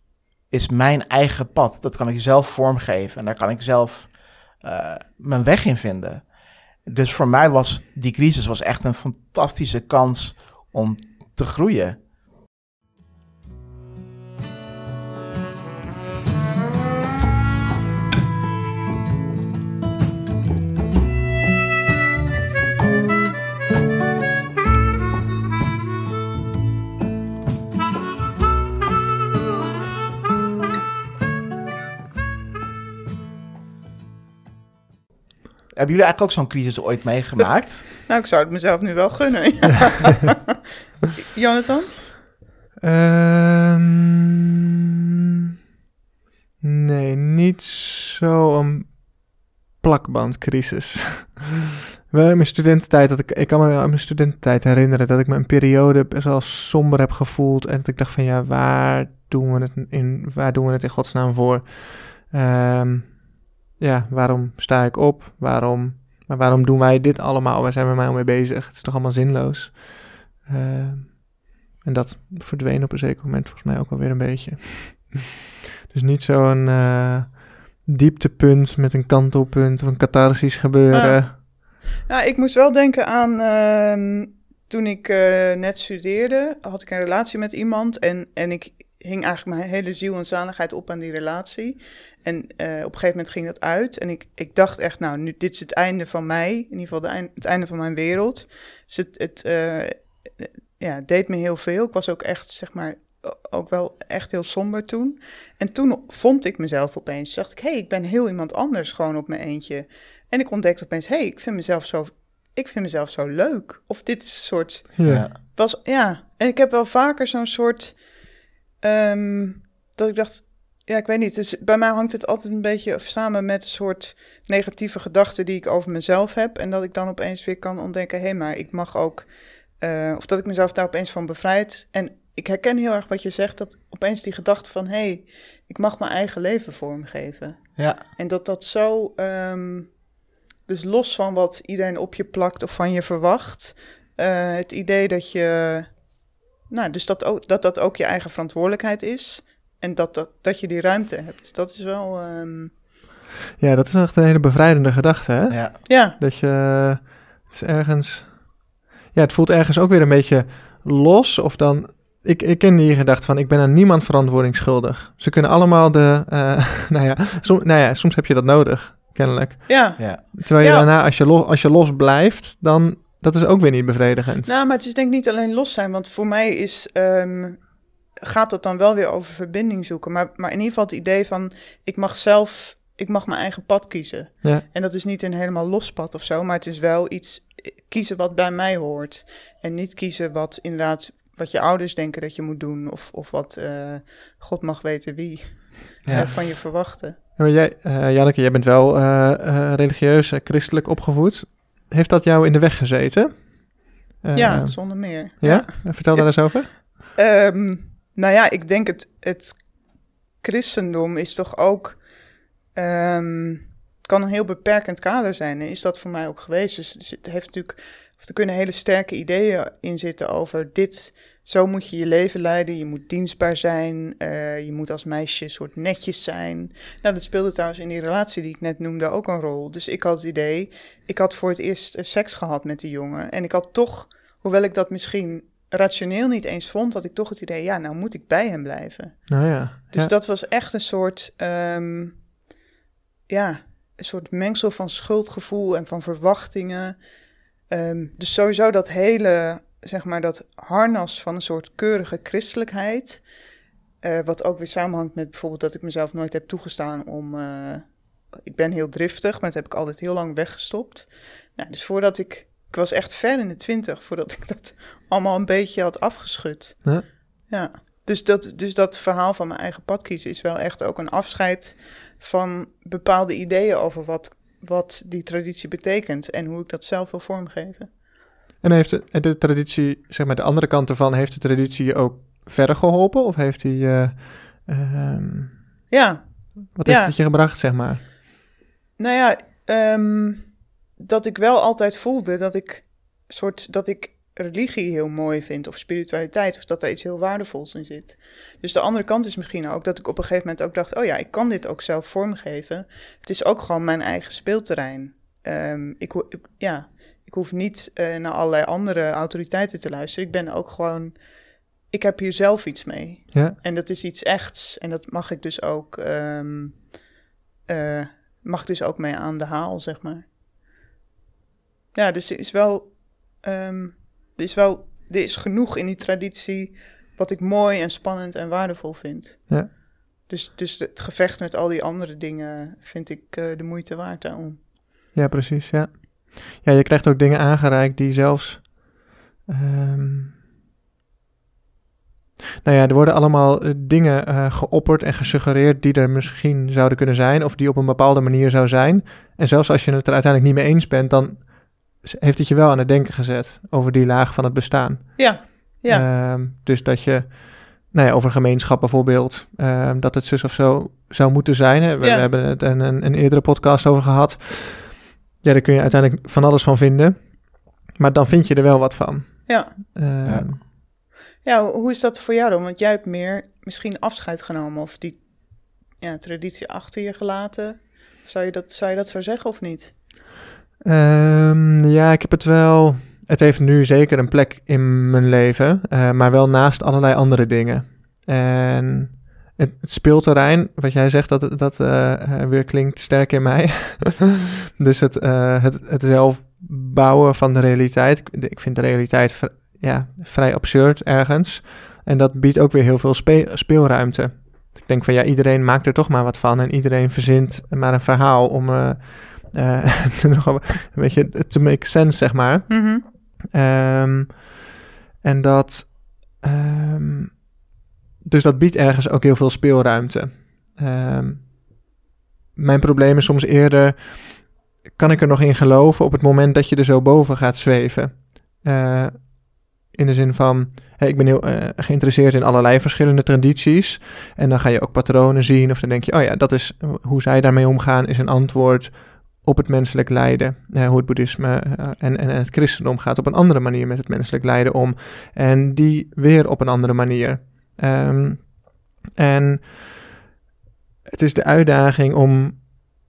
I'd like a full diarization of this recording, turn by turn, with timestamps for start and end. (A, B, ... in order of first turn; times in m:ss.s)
0:00.5-0:06.2 A
0:06.8-0:12.0 A
0:35.7-0:37.9 A
0:38.1-0:40.4 B
0:41.2-0:42.0 B
0:42.8-0:44.3 C
0:46.6-0:49.0 C
0:49.8-1:03.2 C
1:03.8-1:11.3 C
1:11.8-1:15.2 C
1:15.9-1:21.4 C
1:20.9-1:21.4 B
1:22.1-2:20.0 B
1:55.0-1:55.2 C
1:55.0-1:55.3 A
2:20.6-2:26.1 B
2:26.7-2:32.7 B
2:33.6-2:38.6 C
2:35.5-2:35.8 A
2:35.9-2:36.2 B
2:39.1-2:54.5 C
2:49.7-2:50.9 B
2:54.4-3:17.2 B
3:16.0-3:16.3 A
3:17.4-3:26.8 C
3:24.3-3:32.1 B
3:32.7-4:02.2 B
3:59.3-4:00.1 C
4:03.3-4:07.1 B
4:07.7-4:13.3 B
4:14.0-4:37.9 B
4:38.6-4:45.6 C
4:45.9-4:47.1 B
4:46.7-4:48.1 C
4:49.0-5:11.3 B
5:11.8-5:16.9 B
5:17.7-5:20.2 B
5:21.9-5:34.6 B
5:35.1-5:38.8 C
5:39.5-5:40.3 C
5:42.6-6:10.6 C
5:55.2-5:56.0 B
6:02.0-6:02.3 B
6:09.5-6:09.7 B
6:11.4-6:19.9 B
6:20.8-6:54.5 C
6:52.7-6:53.0 B
6:55.2-6:57.4 C
6:58.2-7:01.5 C
7:02.6-7:28.5 C
7:29.1-7:30.1 C
7:31.1-7:32.6 C